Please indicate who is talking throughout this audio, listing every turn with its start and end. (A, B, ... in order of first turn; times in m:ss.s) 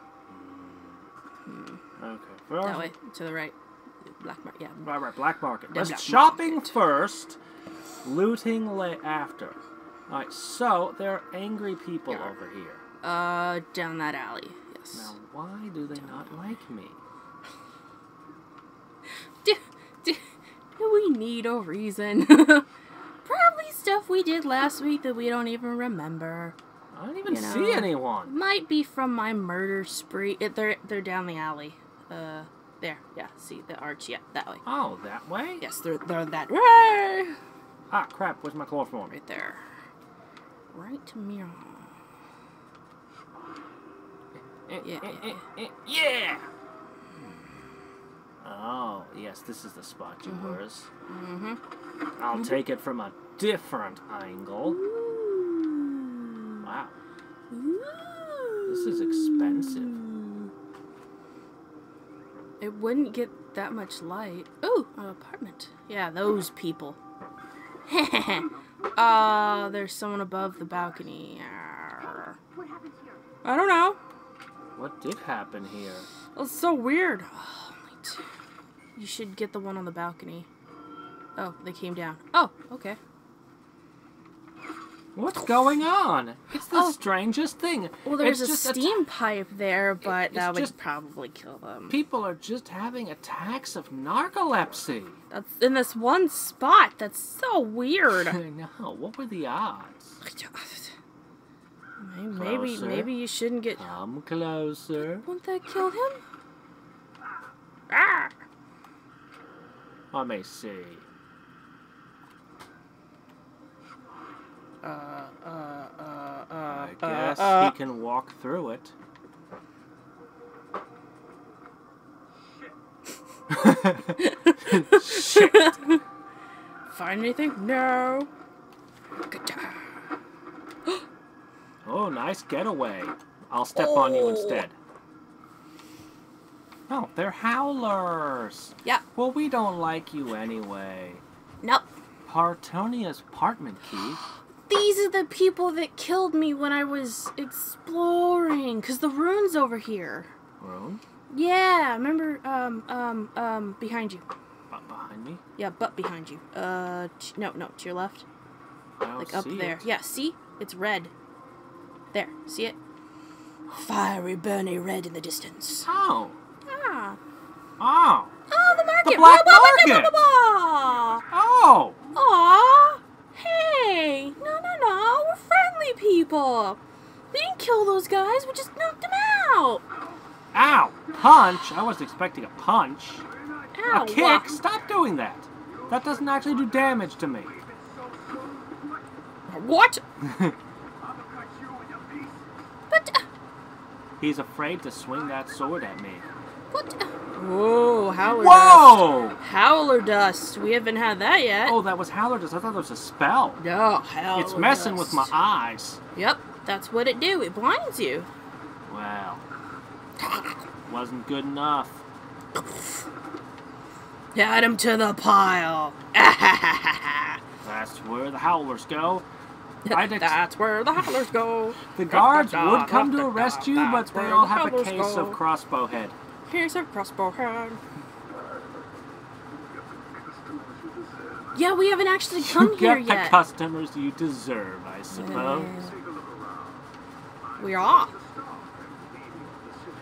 0:00.3-0:01.1 A
0:01.5-0:01.8 B
0:02.0-0:02.9 A
0:02.6-0:03.6 B
0:04.1-0:04.9 B
0:04.8-0:07.4 A
0:05.7-0:06.7 B
0:08.0-0:12.8 A
0:12.1-0:12.3 B
0:13.0-0:15.1 B
0:14.9-0:17.0 A
0:15.9-0:16.4 B
0:19.4-0:20.2 B
0:20.8-0:22.7 B
0:23.2-0:26.6 B
0:26.9-0:28.3 A
0:27.3-0:34.6 B
0:34.6-0:35.6 A
0:35.6-0:37.4 B
0:37.9-0:39.2 A
0:39.1-0:39.6 B
0:40.7-0:42.0 B
0:44.4-0:46.5 A
0:44.8-0:45.4 B
0:48.4-0:50.9 A
0:50.2-0:51.6 B
0:52.2-0:54.8 A
0:54.6-0:56.7 B
0:56.6-0:57.0 A
0:57.5-1:00.5 B
0:58.7-0:59.9 A
1:02.6-1:07.0 B
1:07.9-1:12.4 B
1:09.2-1:09.6 C
1:12.0-1:13.3 C
1:13.4-1:14.0 B
1:14.8-1:16.1 A
1:16.4-1:18.2 B
1:18.9-1:20.5 B
1:21.4-1:23.0 B
1:25.1-1:29.0 A
1:26.7-1:27.0 B
1:28.0-1:32.0 B
1:30.0-1:30.8 A
1:31.9-1:35.2 A
1:35.3-1:38.4 B
1:38.1-1:40.2 A
1:40.2-1:41.0 B
1:42.0-1:43.9 B
1:42.3-1:43.1 A
1:43.8-1:45.2 A
1:45.0-1:46.2 B
1:47.9-1:48.3 B
1:50.1-1:51.0 A
1:54.8-1:57.8 B
1:56.7-1:59.0 A
2:03.5-2:05.9 A
2:03.6-2:06.0 B
2:06.9-2:08.3 B
2:09.3-2:10.0 B
2:11.8-2:14.8 A
2:13.7-2:14.7 B
2:16.9-2:21.2 A
2:21.6-2:21.9 B
2:22.2-2:24.2 A
2:24.7-2:30.3 B
2:30.6-2:31.0 A
2:31.3-2:34.2 B
2:34.7-2:35.4 A
2:35.6-2:38.2 B
2:39.0-2:39.8 A
2:39.2-2:41.1 B
2:42.1-2:42.8 B
2:43.7-2:45.9 B
2:45.9-2:46.4 A
2:46.7-2:47.2 B
2:47.8-2:48.4 A
2:48.5-2:51.2 B
2:49.0-2:50.1 A
2:51.3-2:52.0 A
2:52.1-2:56.8 B
2:57.3-2:59.8 B
3:00.5-3:03.2 A
3:03.7-3:04.6 B
3:03.9-3:07.6 A
3:07.7-3:08.9 C
3:09.5-3:10.0 B
3:10.2-3:10.6 A
3:11.0-3:12.4 C
3:12.9-3:13.2 B
3:14.2-3:16.3 A
3:16.7-3:21.8 B
3:18.2-3:19.4 A
3:21.6-3:23.6 A
3:23.6-3:25.4 B
3:24.3-3:26.0 A
3:26.1-3:28.3 B
3:28.9-3:29.4 A
3:30.2-3:30.6 B
3:30.8-3:32.0 A
3:32.6-3:32.9 B
3:34.3-3:37.4 B
3:37.6-3:39.3 A
3:39.8-3:45.4 B
3:39.9-3:40.4 A
3:41.9-3:46.2 A
3:46.5-3:47.8 B
3:49.9-3:51.4 C
3:51.5-3:53.4 B
3:52.4-3:55.9 A
3:55.1-3:56.0 B
3:56.2-3:56.7 C
3:57.6-3:58.2 B
3:58.0-3:59.8 C